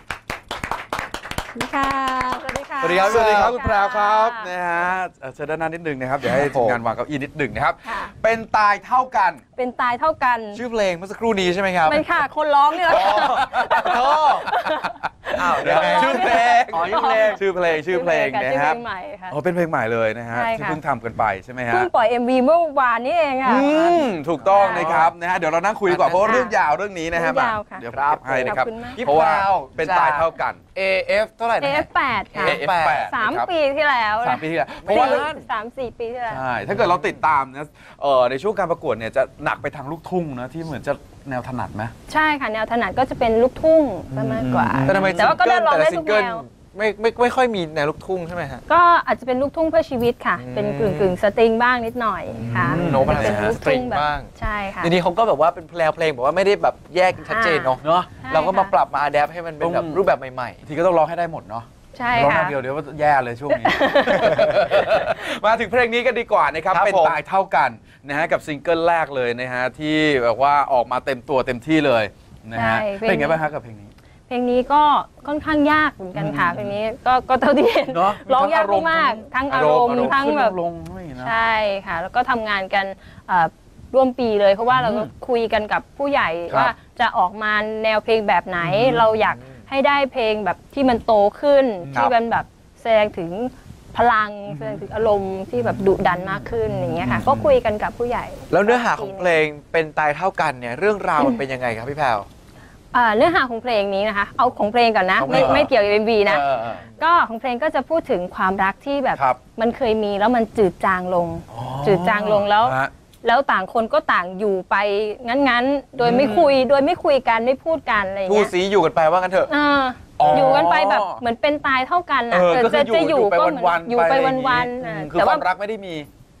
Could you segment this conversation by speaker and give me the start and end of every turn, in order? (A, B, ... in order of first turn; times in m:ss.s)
0:01.5-0:04.5 A
0:02.8-0:03.5 B
0:02.8-0:09.4 C
0:06.2-0:06.8 B
0:07.8-0:08.1 A
0:09.6-0:10.6 A
0:10.5-0:12.0 B
0:11.8-0:19.3 A
0:12.9-0:14.5 B
0:13.2-0:13.9 C
0:15.3-0:17.4 B
0:15.4-0:21.9 C
0:20.3-0:20.8 A
0:21.7-0:25.0 A
0:23.4-0:30.6 C
0:24.6-0:25.1 B
0:25.9-0:26.5 B
0:26.2-0:26.5 A
0:27.1-0:27.8 A
0:27.9-0:33.1 B
0:28.4-0:29.0 A
0:31.6-0:36.4 A
0:32.4-0:33.5 C
0:34.2-0:35.3 C
0:34.8-0:35.4 B
0:36.3-0:41.9 C
0:42.1-0:46.4 A
0:44.1-0:45.4 C
0:44.8-0:48.6 B
0:48.7-0:54.9 A
0:50.4-0:51.2 B
0:52.4-0:53.6 C
0:52.4-0:54.3 B
0:54.8-1:00.6 B
0:57.3-0:58.7 A
0:57.8-0:58.1 C
0:59.6-1:00.0 C
1:00.6-1:13.9 C
1:01.9-1:02.6 A
1:03.5-1:04.9 A
1:06.7-1:07.2 B
1:12.5-1:13.4 A
1:14.3-1:20.6 A
1:16.1-1:16.7 C
1:17.9-1:21.3 C
1:21.2-1:39.4 A
1:24.7-1:25.1 C
1:28.6-1:29.1 C
1:31.8-1:32.1 C
1:34.5-1:34.8 C
1:35.6-1:36.0 C
1:36.7-1:37.5 C
1:38.5-1:42.3 B
1:42.9-1:58.5 A
1:45.2-1:45.7 B
1:45.3-1:45.7 C
1:46.2-1:46.8 C
1:51.5-1:52.9 C
1:56.0-1:56.6 C
1:58.2-1:59.5 B
1:59.5-2:05.4 A
2:00.2-2:01.2 C
2:00.2-2:00.6 B
2:02.3-2:06.1 C